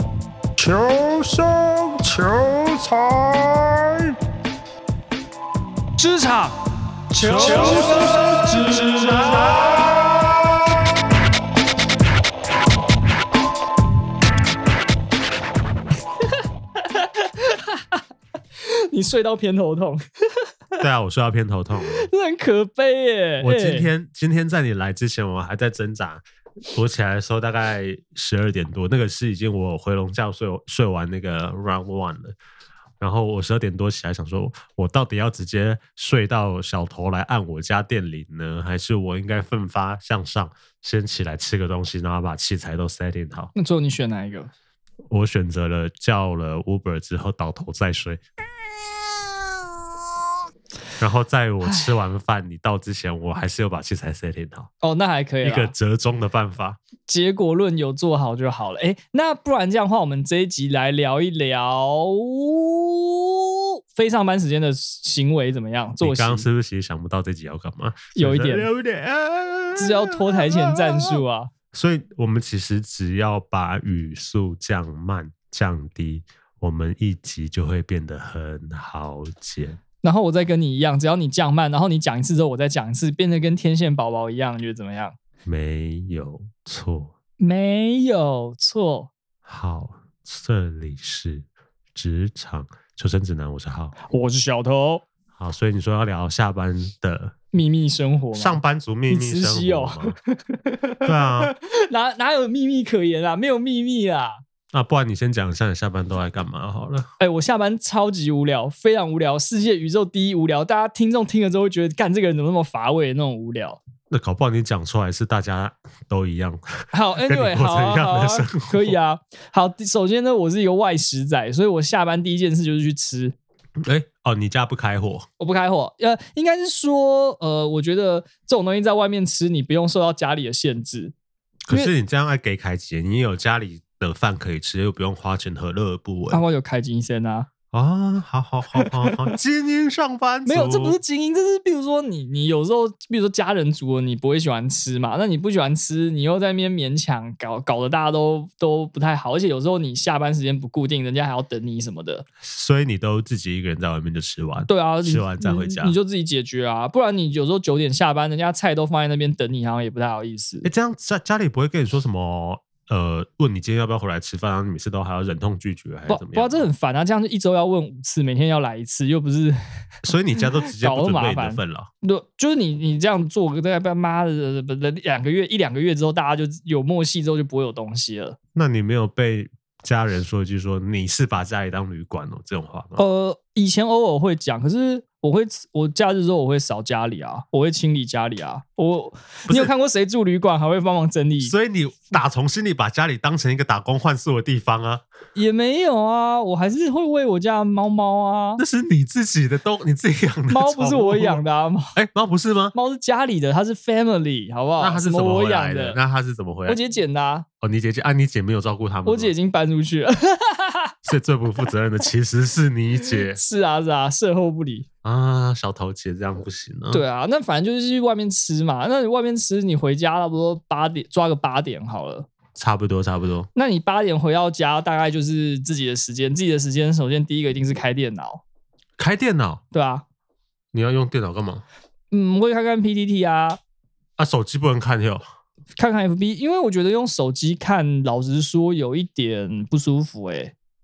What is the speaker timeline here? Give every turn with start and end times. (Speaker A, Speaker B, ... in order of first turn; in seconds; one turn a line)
Speaker A: 0.6-4.1
Speaker B: 6.0-6.6
Speaker B: 7.1-9.2
Speaker C: 7.2-9.6
Speaker A: 7.4-9.8
Speaker B: 16.8-17.8
Speaker B: 18.6-20.5
Speaker C: 20.8-22.1
Speaker B: 21.9-23.9
Speaker C: 23.4-26.2
Speaker C: 26.7-32.3
Speaker C: 33.0-43.5
Speaker B: 43.5-44.5
Speaker C: 45.1-48.2
Speaker C: 51.0-54.7
Speaker B: 54.8-55.7
Speaker C: 55.4-56.8
Speaker B: 57.1-66.5
Speaker C: 66.0-71.2
Speaker B: 68.2-68.7
Speaker B: 69.8-71.5
Speaker C: 71.7-79.8
Speaker B: 80.0-85.2
Speaker C: 85.5-87.1
Speaker B: 87.4-89.1
Speaker C: 89.5-94.0
Speaker B: 94.1-95.0
Speaker C: 95.4-97.3
Speaker B: 97.5-98.6
Speaker C: 98.3-100.2
Speaker B: 99.1-104.4
Speaker C: 101.0-101.5
Speaker C: 104.7-107.1
Speaker B: 107.2-113.8
Speaker C: 114.1-119.0
Speaker B: 116.9-123.3
Speaker C: 123.8-125.3
Speaker B: 125.4-131.1
Speaker C: 131.7-136.4
Speaker B: 136.3-137.5
Speaker C: 137.7-141.0
Speaker B: 138.8-139.2
Speaker B: 140.4-152.2
Speaker C: 152.4-155.9
Speaker B: 154.7-160.7
Speaker C: 160.6-166.7
Speaker B: 166.1-169.6
Speaker C: 170.0-171.9
Speaker B: 170.6-178.4
Speaker C: 178.5-183.0
Speaker B: 182.9-191.5
Speaker C: 191.4-195.0
Speaker B: 195.3-198.6
Speaker C: 198.6-201.4
Speaker B: 200.5-201.9
Speaker C: 201.9-202.8
Speaker B: 202.8-206.0
Speaker C: 204.8-206.8
Speaker B: 206.7-207.4
Speaker C: 207.6-209.3
Speaker B: 209.1-210.9
Speaker C: 211.0-213.4
Speaker B: 213.3-214.8
Speaker C: 215.0-217.0
Speaker B: 216.9-222.3
Speaker C: 222.5-223.5
Speaker B: 223.5-228.4
Speaker C: 229.0-229.6
Speaker B: 229.7-230.0
Speaker C: 230.7-231.6
Speaker B: 232.1-233.6
Speaker C: 234.2-235.2
Speaker B: 235.8-240.5